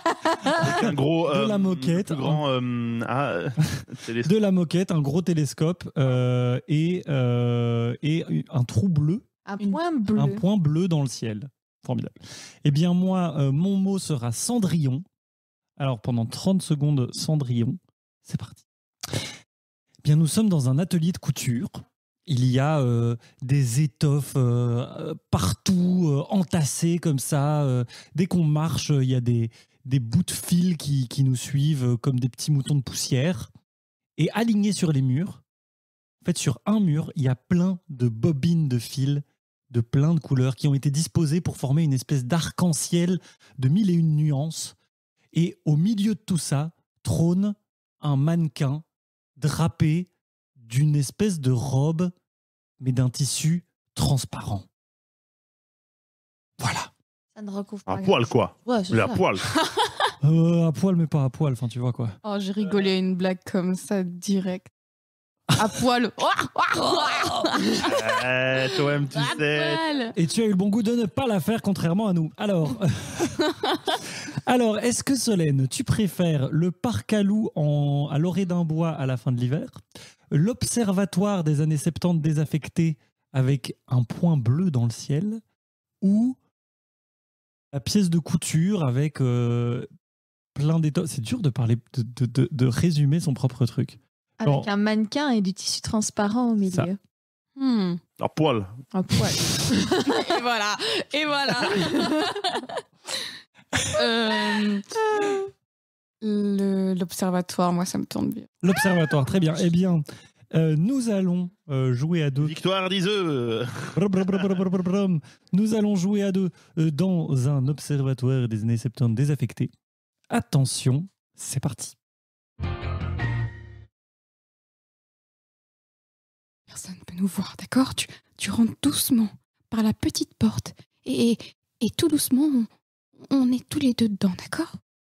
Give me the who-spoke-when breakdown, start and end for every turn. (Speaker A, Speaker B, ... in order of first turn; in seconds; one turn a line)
Speaker A: 0.5-4.3
Speaker B: 0.6-2.4
Speaker B: 3.7-9.2
Speaker C: 9.5-10.4
Speaker B: 10.2-15.1
Speaker B: 15.8-19.3
Speaker B: 20.0-33.5
Speaker B: 34.2-35.4
Speaker B: 36.2-44.8
Speaker B: 45.3-48.9
Speaker B: 49.4-52.1
Speaker B: 52.8-54.7
Speaker B: 56.6-56.9
Speaker C: 57.4-59.5
Speaker A: 57.9-59.4
Speaker B: 60.2-62.2
Speaker D: 62.2-64.7
Speaker D: 65.6-68.0
Speaker A: 67.8-69.8
Speaker D: 69.1-70.2
Speaker B: 70.1-73.5
Speaker B: 74.3-85.4
Speaker B: 86.0-86.4
Speaker B: 87.7-89.9
Speaker B: 90.6-94.7
Speaker C: 94.4-97.0
Speaker D: 97.6-98.0
Speaker A: 98.2-98.7
Speaker C: 98.9-100.4
Speaker D: 100.1-103.3
Speaker D: 103.8-105.4
Speaker D: 106.2-108.6
Speaker B: 108.6-112.5
Speaker A: 112.4-114.3
Speaker B: 114.0-119.7
Speaker B: 120.3-122.0
Speaker D: 126.7-132.7
Speaker D: 133.2-134.8